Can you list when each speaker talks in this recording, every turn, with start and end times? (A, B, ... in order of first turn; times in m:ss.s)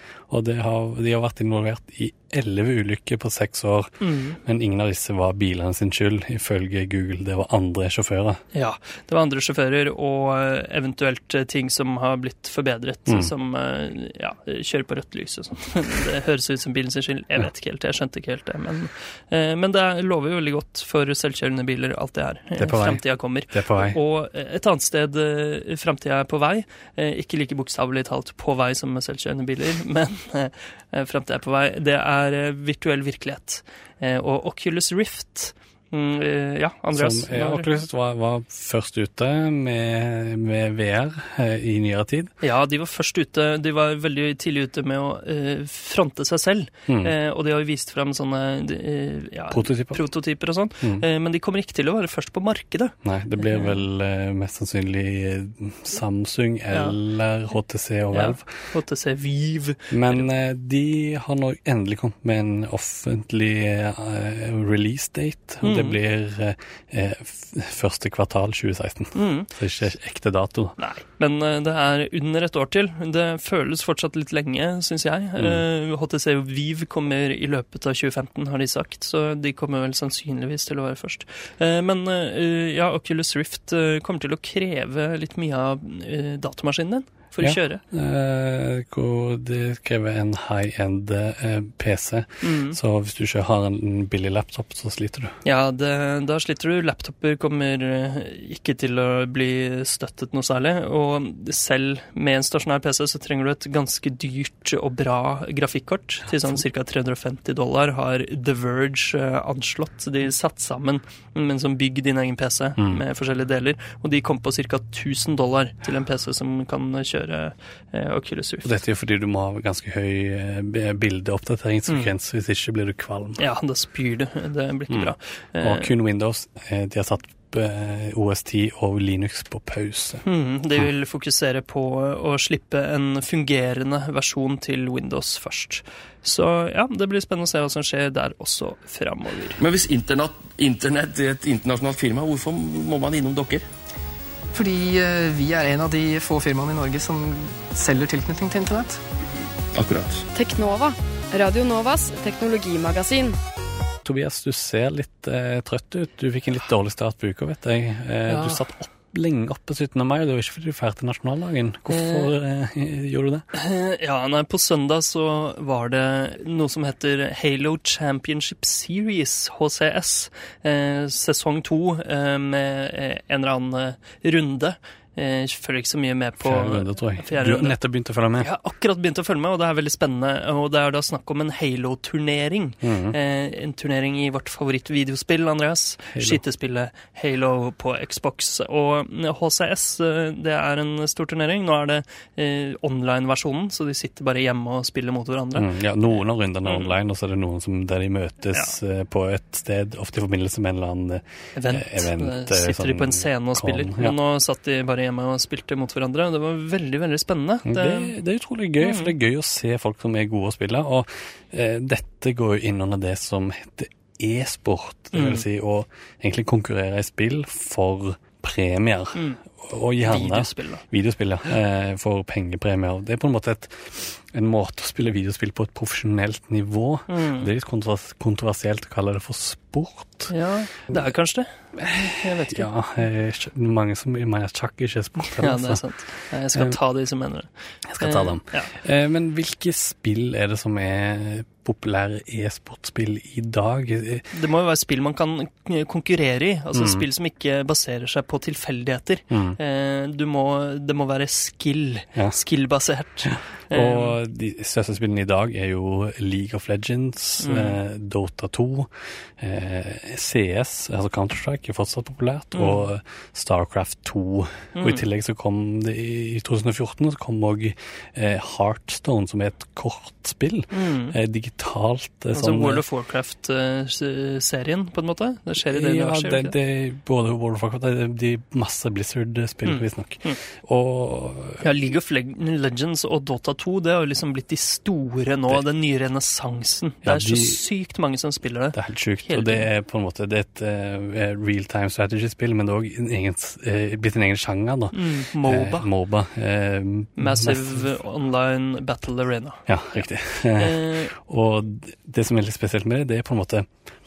0:00.3-0:08.4 A
0:04.0-0:04.4 B
0:08.5-0:37.7 B
0:22.6-0:24.0 A
0:36.9-0:42.3 A
0:42.4-0:53.7 B
0:46.9-0:47.1 A
0:49.5-0:50.0 A
0:53.0-0:58.5 A
0:58.1-1:00.3 B
0:59.9-1:10.7 A
1:05.6-1:06.0 B
1:09.1-1:09.5 B
1:10.8-1:27.8 B
1:15.4-1:15.6 A
1:27.4-1:35.3 A
1:32.4-1:32.8 B
1:35.4-1:58.7 B
1:58.6-2:03.4 A
2:01.9-2:02.1 B
2:03.4-2:05.9 B
2:04.9-2:10.2 A
2:10.2-2:19.6 B
2:19.6-2:23.6 C
2:24.5-2:29.0 D
2:29.7-2:30.2 C
2:30.3-2:33.4 E
2:34.0-2:43.4 A
2:38.3-2:38.6 B
2:41.9-2:42.3 B
2:43.5-2:57.8 B
2:56.4-2:58.5 A
2:58.4-3:15.7 B
3:02.8-3:03.2 A
3:06.1-3:06.4 A
3:15.5-3:24.1 A
3:21.6-3:28.1 B
3:27.6-3:50.3 A
3:28.8-3:29.1 B
3:35.1-3:35.4 B
3:39.1-3:39.4 B
3:40.0-3:40.8 B
3:47.1-3:47.5 B
3:50.3-3:52.7 B
3:51.8-3:55.8 A
3:55.2-3:58.7 B
3:57.9-4:04.2 A
4:04.3-4:14.2 B
4:06.7-4:07.0 A
4:09.3-4:09.6 A
4:13.3-4:32.8 A
4:17.4-4:17.8 B
4:22.5-4:22.8 B
4:24.7-4:25.0 B
4:30.7-4:31.2 B
4:32.3-4:36.5 B
4:35.6-4:41.6 A
4:39.6-4:40.4 B
4:41.6-4:49.7 B
4:47.0-4:47.6 A
4:48.7-4:57.9 A
4:54.9-4:55.9 B
4:57.2-5:00.0 B
4:59.7-5:03.7 A
5:00.5-5:01.1 B